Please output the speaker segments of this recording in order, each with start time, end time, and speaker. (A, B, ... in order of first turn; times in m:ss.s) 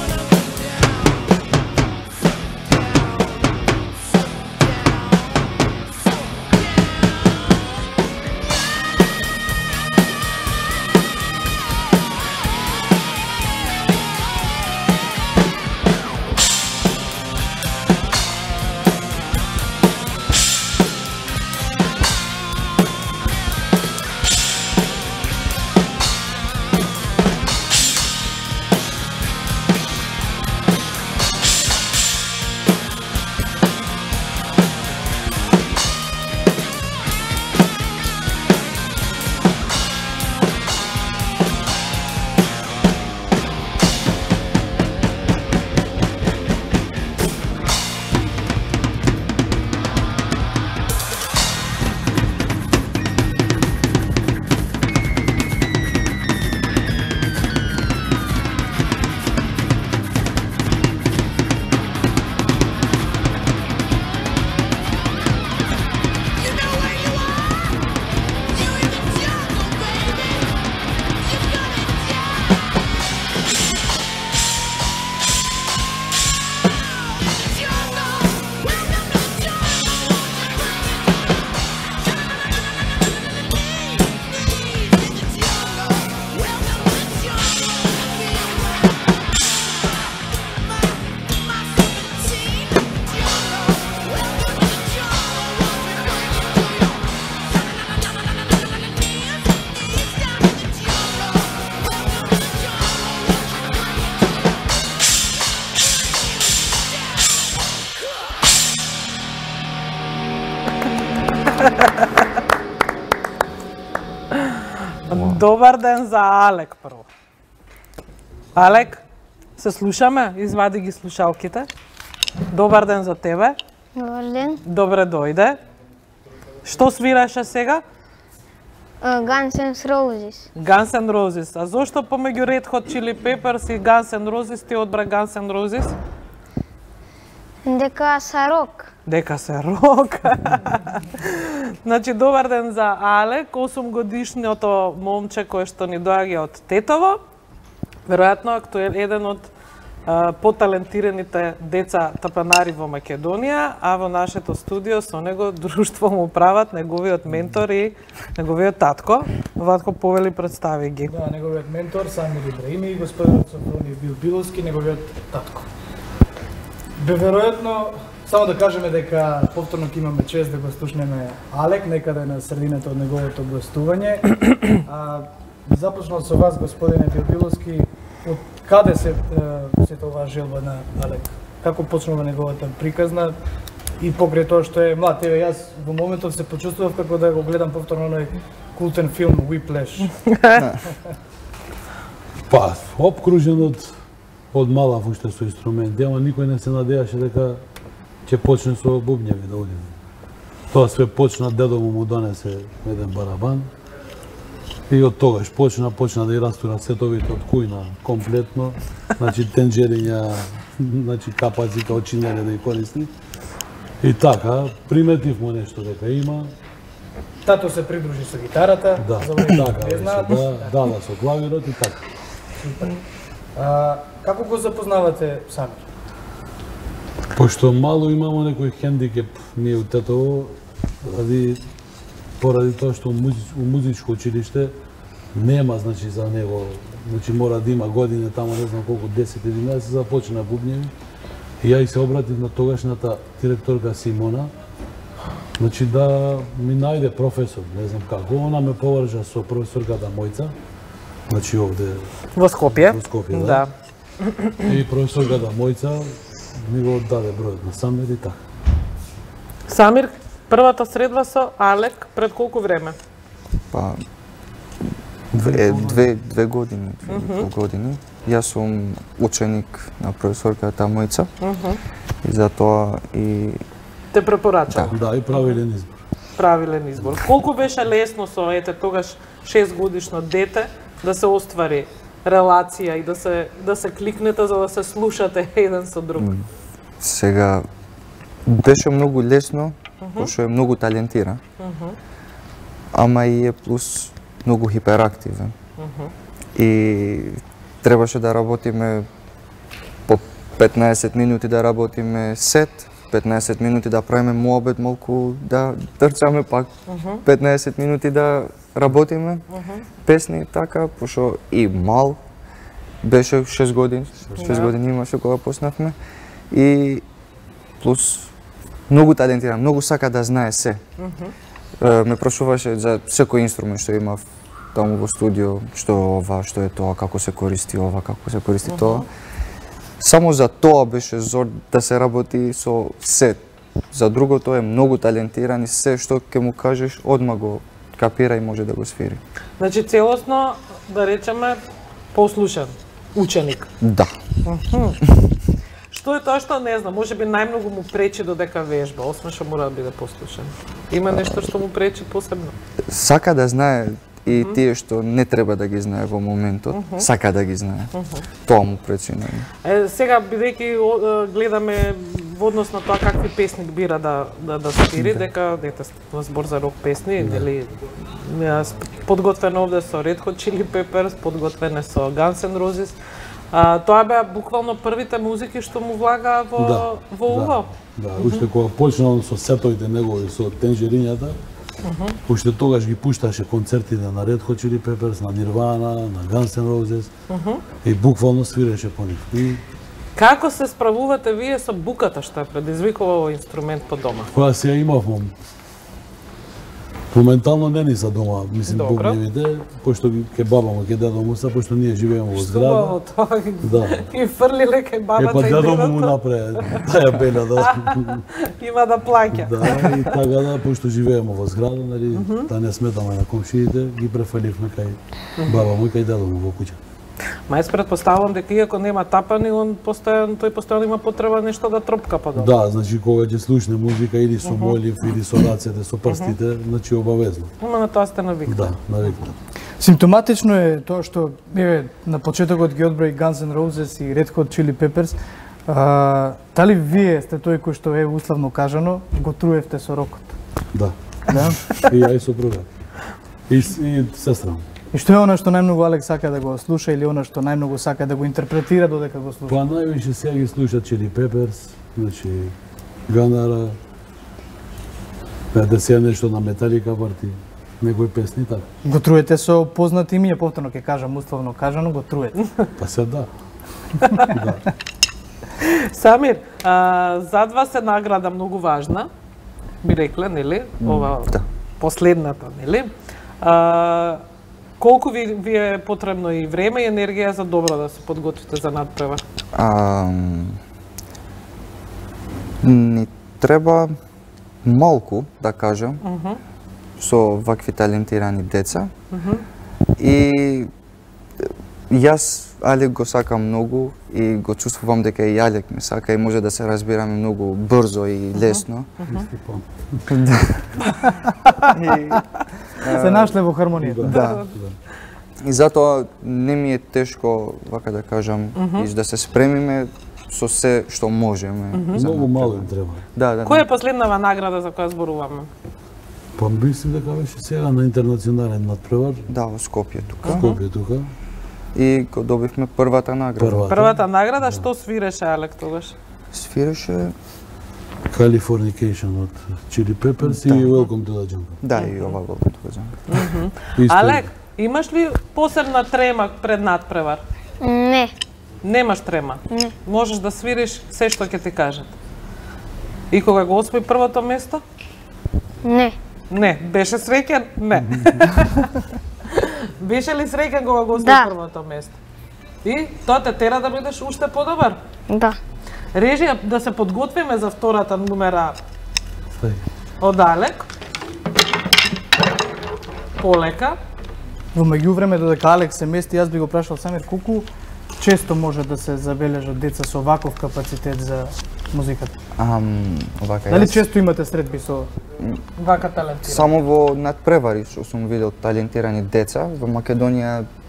1:06.7-1:07.2 A
1:08.6-1:10.2 A
1:17.8-1:18.5 A
1:19.2-1:19.6 A
1:24.8-1:27.2 A
1:32.3-1:32.9 A
1:34.6-1:35.7 A
1:51.6-1:52.2 A
1:54.3-1:57.1 A
1:55.1-1:55.4 B
1:58.5-1:59.0 A
1:59.6-2:01.7 A
2:02.5-2:03.6 A
2:04.0-2:04.6 C
2:04.6-2:05.6 A
2:06.6-2:07.8 A
2:09.0-2:10.4 C
2:10.6-2:16.0 A
2:17.7-2:18.8 C
2:19.0-2:27.2 A
2:28.1-2:29.5 A
2:30.0-2:41.1 A
2:41.1-2:45.6 D
2:47.0-3:03.3 D
3:04.0-3:10.1 D
3:10.3-3:10.6 A
3:12.5-3:13.9 E
3:14.5-3:17.6 E
3:18.2-3:19.9 E
3:20.7-3:23.7 E
3:24.9-3:33.1 E
3:34.0-3:36.5 E
3:37.4-3:40.8 D
3:39.0-3:42.0 E
3:42.6-3:43.0 D
3:43.5-3:45.8 D
3:47.3-3:51.6 E
3:52.4-3:54.7 E
3:55.3-4:00.9 E
4:01.6-4:04.5 E
4:05.6-4:10.5 E
4:11.3-4:12.1 E
4:12.3-4:13.7 A
4:12.6-4:13.6 E
4:14.2-4:14.7 A
4:14.6-4:18.4 E
4:19.7-4:23.0 A
4:23.7-4:24.0 B
4:25.3-4:26.1 E
4:25.3-4:31.3 B
4:27.1-4:27.5 A
4:31.4-4:31.8 A
4:32.2-4:33.6 B
4:34.1-4:35.6 A
4:34.7-4:34.9 B
4:34.9-4:36.0 E
4:36.4-4:46.3 A
4:46.2-4:46.4 B
4:47.0-4:47.6 B
4:48.4-4:51.4 B
4:50.0-4:50.3 A
4:51.6-4:52.0 A
4:52.9-4:55.5 B
4:55.8-4:56.1 A
4:56.6-4:59.1 B
5:00.1-5:06.7 B
5:06.9-5:07.2 A
5:07.2-5:09.4 B
5:09.5-5:09.8 A
5:10.0-5:12.2 B
5:13.0-5:15.9 B
5:14.4-5:14.7 A
5:16.5-5:17.0 B
5:17.8-5:18.3 B
5:18.9-5:20.8 B
5:21.0-5:21.3 A
5:21.8-5:29.1 B
5:28.6-5:29.0 A
5:30.0-5:33.4 B
5:33.9-5:39.2 B
5:39.6-5:41.6 A
5:42.1-5:43.7 A
5:43.8-5:44.2 B
5:44.4-5:45.0 A
5:45.9-5:52.5 A
5:52.9-5:57.9 B
5:54.3-5:54.6 A
5:56.7-5:57.1 A
5:57.9-5:58.2 A
5:58.4-5:59.5 B
5:59.6-6:13.0 A
6:04.9-6:05.2 B
6:07.2-6:07.5 E
6:13.5-6:18.4 A
6:16.6-6:21.4 E
6:21.8-6:22.2 A
6:22.2-6:27.1 E
6:27.3-6:27.6 A
6:27.8-6:29.6 E
6:30.1-6:34.3 A
6:34.3-6:35.3 E
6:37.1-6:43.0 E
6:38.6-6:39.2 A
6:42.3-6:46.9 A
6:43.6-6:44.0 E
6:45.2-6:48.2 E
6:47.4-6:50.1 A
6:49.3-6:56.8 E
6:52.1-6:52.5 A
6:55.4-6:55.7 A
6:57.5-7:02.5 A
7:02.3-7:07.5 E
7:04.4-7:04.8 A
7:06.1-7:06.4 A
7:07.6-7:08.8 A
7:08.4-7:09.4 E
7:09.8-7:20.3 D
7:20.7-7:22.7 E
7:21.3-7:21.8 D
7:23.5-7:24.6 E
7:24.9-7:29.6 D
7:29.5-7:32.5 E
7:33.1-7:33.8 E
7:35.5-7:38.6 E
7:38.8-7:42.4 D
7:42.8-7:43.3 E
7:44.0-7:44.3 A
7:44.3-7:44.6 E
7:45.6-7:49.1 A
7:49.8-7:52.9 A
7:50.8-7:51.4 B
7:53.4-7:54.2 A
7:54.8-7:59.2 A
7:59.5-8:00.6 B
8:02.6-8:03.9 B
8:04.6-8:06.0 B
8:06.0-8:06.4 A
8:07.0-8:08.9 B
8:09.1-8:09.4 A
8:10.0-8:10.7 B
8:11.4-8:18.9 B
8:18.4-8:19.3 A
8:19.1-8:20.0 E
8:20.1-8:20.8 B
8:21.0-8:21.3 D
8:21.7-8:23.4 B
8:22.9-8:24.1 D
8:23.8-8:24.8 E
8:24.0-8:24.4 B
8:24.1-8:24.5 A
8:25.4-8:33.7 B
8:28.6-8:28.9 A
8:31.7-8:32.0 A
8:31.9-8:33.0 E
8:33.4-8:35.5 A
8:36.4-8:39.2 E
8:39.3-8:40.5 B
8:40.2-8:40.6 A
8:40.2-8:41.1 E
8:41.7-8:43.7 B
8:43.4-8:44.7 E
8:43.7-8:45.9 A
8:46.3-8:47.1 B
8:48.1-8:51.6 E
8:50.2-8:50.8 B
8:51.6-8:53.2 B
8:51.8-8:52.1 A
8:53.1-8:57.2 A
8:53.8-8:54.3 E
8:57.6-8:58.1 C
8:58.6-9:01.9 A
9:03.1-9:04.6 A
9:05.6-9:05.9 C
9:06.3-9:08.8 A
9:09.3-9:12.0 A
9:12.6-9:14.8 A
9:15.9-9:18.6 A
9:19.4-9:19.6 E
9:20.0-9:20.7 A
9:23.2-9:23.8 A
9:24.5-9:27.5 D
9:28.0-9:32.1 D
9:32.4-9:33.9 B
9:33.5-9:34.9 D
9:35.6-9:36.5 A
9:36.3-9:40.5 B